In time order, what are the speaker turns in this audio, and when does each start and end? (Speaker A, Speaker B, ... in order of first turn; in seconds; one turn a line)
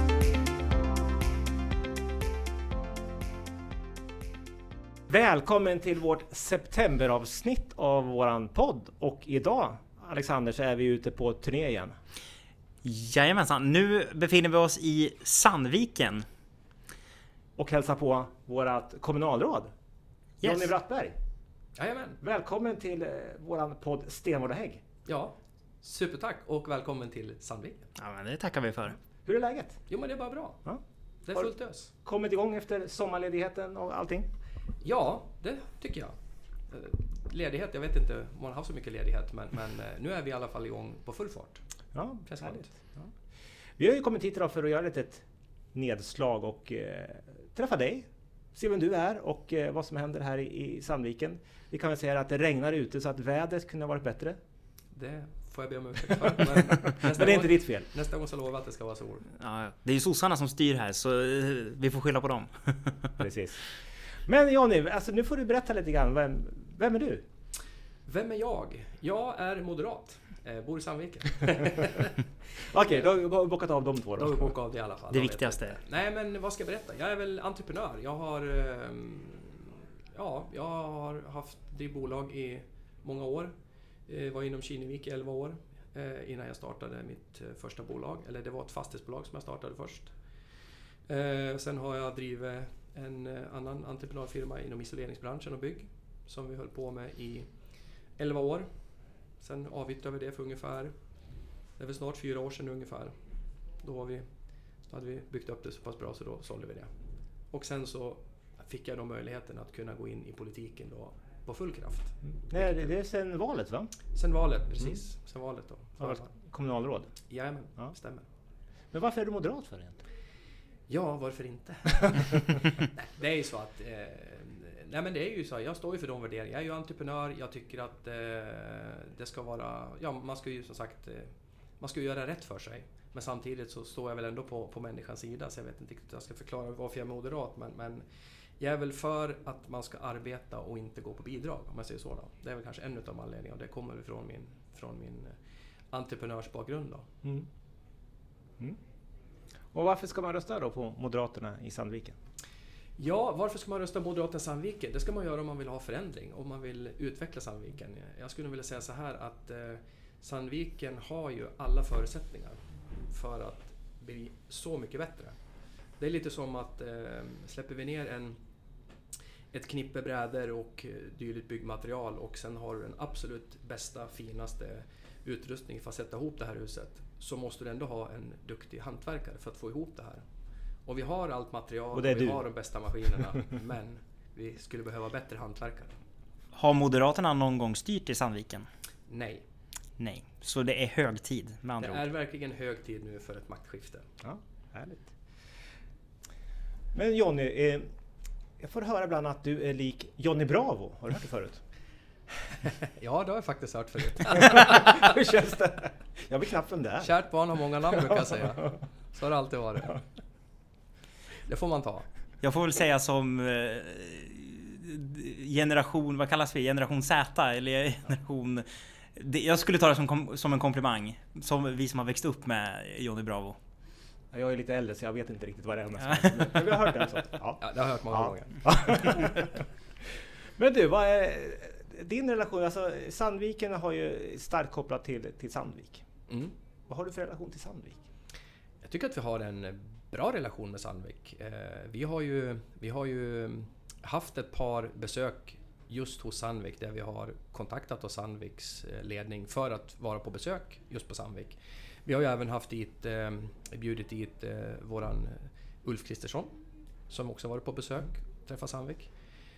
Speaker A: 5.1-12.0
Speaker B: 12.8-16.2
Speaker A: 17.6-19.7
Speaker B: 20.4-20.7
Speaker A: 20.4-21.1
Speaker C: 21.8-22.2
Speaker A: 22.2-24.8
Speaker C: 25.1-27.9
Speaker B: 28.0-29.0
Speaker A: 29.2-29.8
Speaker C: 29.9-30.6
Speaker C: 31.2-31.9
Speaker A: 31.3-34.3
Speaker C: 34.8-36.1
Speaker C: 36.7-41.6
Speaker A: 41.9-43.1
Speaker C: 42.2-42.7
Speaker A: 43.8-54.4
Speaker C: 54.9-59.3
Speaker A: 56.9-57.9
Speaker B: 59.3-63.2
Speaker A: 63.2-67.2
Speaker C: 68.1-73.0
Speaker A: 72.6-74.5
Speaker C: 74.2-83.5
Speaker B: 75.1-75.8
Speaker C: 84.1-90.2
Speaker C: 91.0-98.7
Speaker C: 99.4-100.9
Speaker C: 101.7-103.1
Speaker C: 103.8-106.9
Speaker C: 107.5-112.9
Speaker A: 112.2-113.9
Speaker C: 114.1-116.3
Speaker A: 116.0-117.1
Speaker C: 117.3-118.2
Speaker A: 118.9-120.0
Speaker C: 120.9-138.0
Speaker C: 138.6-145.3
Speaker C: 145.9-147.1
Speaker A: 149.7-152.2
Speaker C: 153.0-165.3
Speaker C: 166.0-168.4
Speaker C: 169.5-180.2
Speaker C: 180.8-185.9
Speaker A: 181.9-182.4
Speaker A: 183.1-183.5
Speaker B: 186.5-188.7
Speaker C: 189.1-189.4
Speaker B: 190.0-192.0
Speaker C: 191.8-194.1
Speaker A: 194.2-195.1
Speaker A: 196.9-197.9
Speaker A: 198.6-201.6
Speaker C: 202.8-205.1
Speaker A: 204.4-207.1
Speaker C: 207.0-210.0
Speaker C: 211.4-212.1
Speaker B: 212.4-223.6
Speaker A: 224.3-229.6
Speaker B: 226.1-226.7
Speaker C: 227.6-229.1
Speaker A: 230.1-236.1
Speaker A: 236.9-238.0
Speaker C: 238.8-256.5
Speaker C: 257.1-259.1